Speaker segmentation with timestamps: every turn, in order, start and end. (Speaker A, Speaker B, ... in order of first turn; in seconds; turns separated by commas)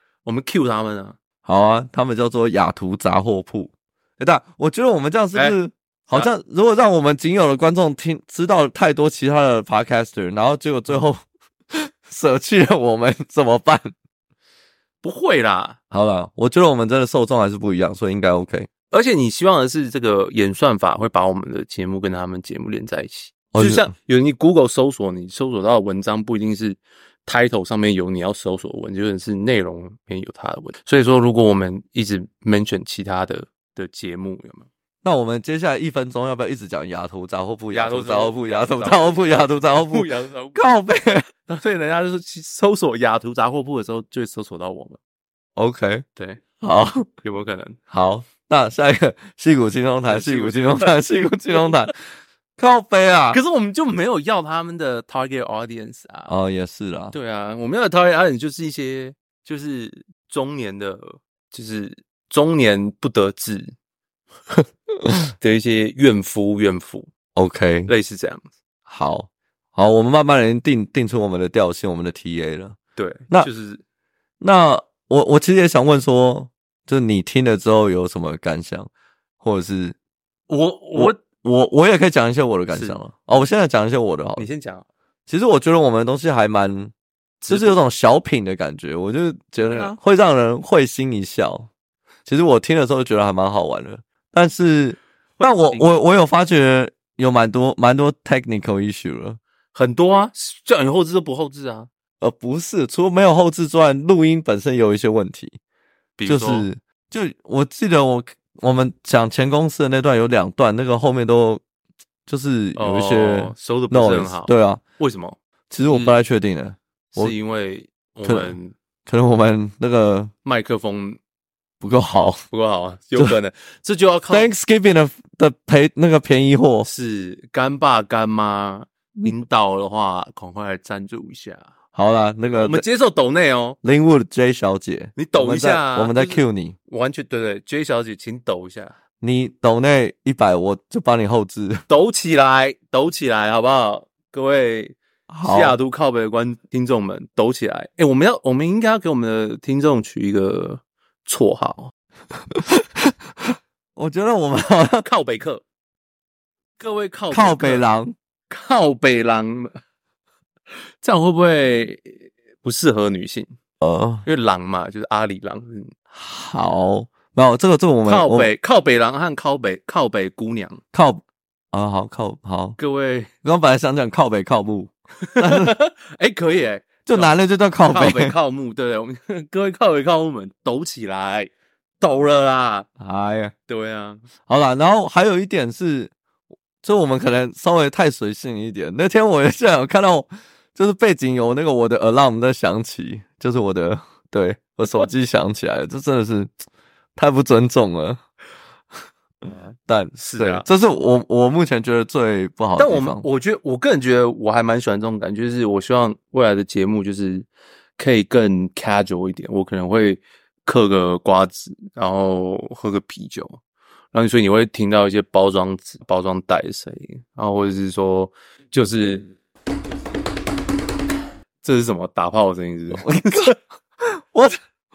Speaker A: 0.2-1.2, Speaker B: 1.4-11.2, Speaker A: 5.3-5.6, Speaker B: 11.7-13.9, Speaker A: 15.0-15.8, Speaker B: 15.9-18.7, Speaker A: 18.9-34.7, Speaker B: 23.5-23.9, Speaker B: 35.0-41.2, Speaker A: 37.7-40.6, Speaker A: 41.4-45.0, Speaker B: 45.5-46.0, Speaker A: 46.1-46.4, Speaker B: 46.6-47.1, Speaker A: 47.2-47.8, Speaker B: 47.9-51.9, Speaker A: 50.1-50.9, Speaker A: 51.5-51.9, Speaker B: 52.6-53.4, Speaker A: 53.3-56.3, Speaker B: 56.3-57.1, Speaker A: 57.1-63.7, Speaker A: 65.4-67.1, Speaker B: 67.3-67.9, Speaker A: 67.8-68.5, Speaker B: 68.9-72.8, Speaker A: 73.0-73.8, Speaker B: 74.4-78.9, Speaker B: 79.4-80.0, Speaker A: 80.5-81.2, Speaker B: 80.9-84.5, Speaker A: 82.7-83.0, Speaker A: 84.4-84.9, Speaker B: 85.3-86.9, Speaker A: 87.4-87.8, Speaker B: 87.5-91.7, Speaker A: 89.6-90.0, Speaker B: 92.2-99.4, Speaker A: 95.4-95.9, Speaker A: 99.7-101.9, Speaker B: 102.2-105.6, Speaker A: 106.2-106.7, Speaker B: 106.2-111.6, Speaker B: 112.3-114.8, Speaker A: 112.8-116.2, Speaker B: 115.7-117.3, Speaker A: 117.1-118.7, Speaker B: 118.2-120.3, Speaker A: 120.4-121.2, Speaker B: 121.8-122.4, Speaker A: 122.5-124.5, Speaker B: 124.3-126.9, Speaker A: 126.8-131.7, Speaker B: 131.9-132.8, Speaker A: 132.6-133.8, Speaker B: 133.8-136.8, Speaker A: 135.2-138.9, Speaker B: 139.2-141.8, Speaker A: 141.9-151.9, Speaker B: 145.3-145.8, Speaker B: 152.6-153.1, Speaker B: 153.9-155.1, Speaker A: 155.0-155.6, Speaker A: 156.8-157.8, Speaker B: 157.3-158.1, Speaker A: 158.5-159.8, Speaker A: 161.0-163.5, Speaker B: 163.8-164.2, Speaker A: 164.2-165.9, Speaker B: 166.1-168.5, Speaker A: 168.0-170.8, Speaker B: 170.9-172.8, Speaker A: 172.8-173.3, Speaker B: 173.4-175.7, Speaker A: 175.3-182.9, Speaker B: 177.1-178.3, Speaker B: 183.0-183.5, Speaker A: 183.7-184.2, Speaker B: 184.5-186.1, Speaker B: 186.8-196.5, Speaker B: 197.1-198.2, Speaker A: 199.4-200.7, Speaker B: 199.9-203.2, Speaker A: 202.8-213.6, Speaker A: 214.1-219.3, Speaker A: 221.6-223.6, Speaker B: 222.9-223.6, Speaker B: 224.2-224.6